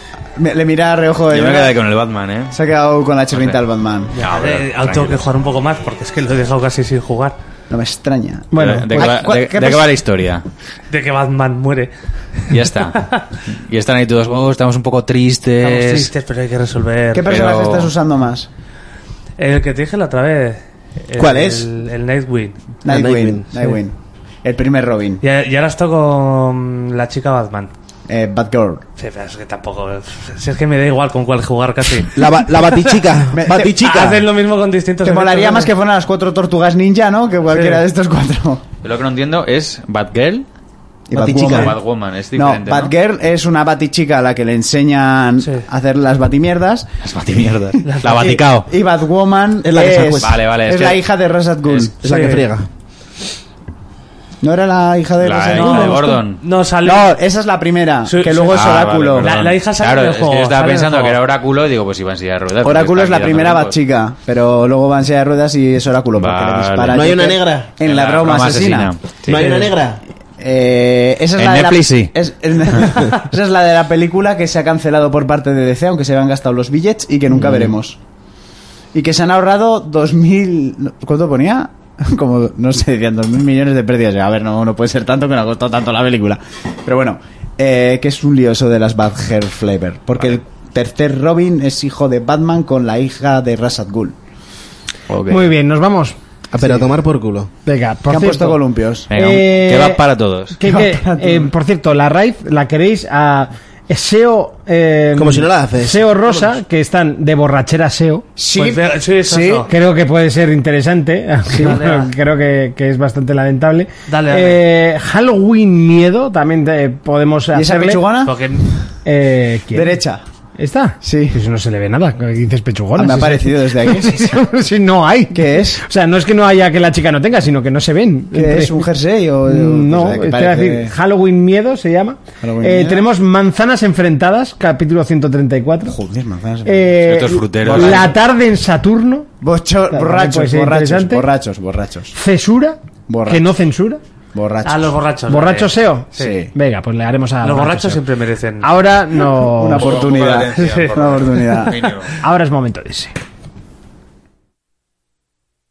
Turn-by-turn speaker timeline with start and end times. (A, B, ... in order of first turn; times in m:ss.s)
0:00.4-0:01.8 A
0:01.3-0:02.5 B
0:02.5-0:04.2 A
0:03.3-0:03.6 B
0:04.2-0:05.3 B
0:04.2-0:07.4 C
0:07.7-0:09.9 A
0:08.5-0:09.1 D
0:08.6-0:10.4 B
0:10.9-0:13.3 C
0:12.5-0:16.1 B
0:15.6-0:17.5 C
0:17.1-0:18.5 A
0:17.3-0:17.9 B
0:19.4-0:22.6 C
0:21.2-0:21.7 E
0:22.8-0:25.2 A
0:22.9-0:23.7 E
0:25.2-0:27.7 C
0:28.1-0:28.8 A
0:29.0-0:35.7 C
0:32.1-0:34.3 E
0:33.3-0:33.7 A
0:35.0-0:38.6 A
0:37.5-0:37.8 C
0:38.8-0:40.5 B
0:41.1-0:41.8 A
0:41.1-0:41.7 E
0:41.2-0:42.9 B
0:42.3-0:46.9 A
0:47.0-0:48.7 B
0:47.8-0:48.4 C
0:48.1-0:51.9 A
0:49.6-0:50.4 E
0:50.2-0:51.0 B
0:52.0-0:52.7 E
0:52.0-0:52.5 C
0:54.4-0:56.2 A
0:55.2-0:56.4 B
0:55.5-0:57.2 C
0:56.8-0:59.3 A
0:58.1-1:01.2 C
0:58.5-1:03.8 B
1:02.6-1:08.9 A
1:06.2-1:07.2 B
1:06.9-1:07.8 E
1:07.8-1:09.5 B
1:09.3-1:10.0 E
1:09.3-1:09.7 C
1:10.4-1:18.0 A
1:11.4-1:12.1 B
1:18.9-1:34.2 A
1:35.1-1:35.5 B
1:35.3-1:36.2 D
1:36.5-1:37.5 E
1:36.6-1:36.8 A
1:37.7-1:38.6 D
1:38.1-1:39.1 A
1:39.1-1:40.6 B
1:39.1-1:40.0 D
1:40.6-1:48.3 D
1:40.6-1:41.5 A
1:45.2-1:46.6 E
1:48.4-1:49.7 A
1:48.6-1:49.7 C
1:49.7-1:58.0 D
1:51.5-1:52.1 C
1:51.6-1:51.8 A
1:54.1-1:54.6 C
1:57.5-1:58.3 A
1:58.2-1:58.7 C
1:59.0-2:00.0 D
1:59.7-2:00.2 A
2:00.6-2:08.9 D
2:01.0-2:01.4 A
2:03.0-2:04.4 A
2:05.3-2:05.8 A
2:08.3-2:10.9 A
2:09.5-2:16.0 D
2:12.4-2:13.1 A
2:15.9-2:17.0 A
2:16.6-2:19.3 D
2:17.0-2:18.1 B
2:17.7-2:18.1 A
2:19.4-2:22.1 A
2:19.9-2:21.2 D
2:22.2-2:24.0 D
2:23.1-2:23.6 A
2:24.4-2:25.0 A
2:24.6-2:26.4 C
2:25.3-2:28.0 D
2:26.2-2:26.5 A
2:27.4-2:28.7 C
2:28.6-2:29.9 D
2:29.5-2:31.8 A
2:29.8-2:32.1 B
2:30.6-2:30.9 C
2:32.2-2:33.1 D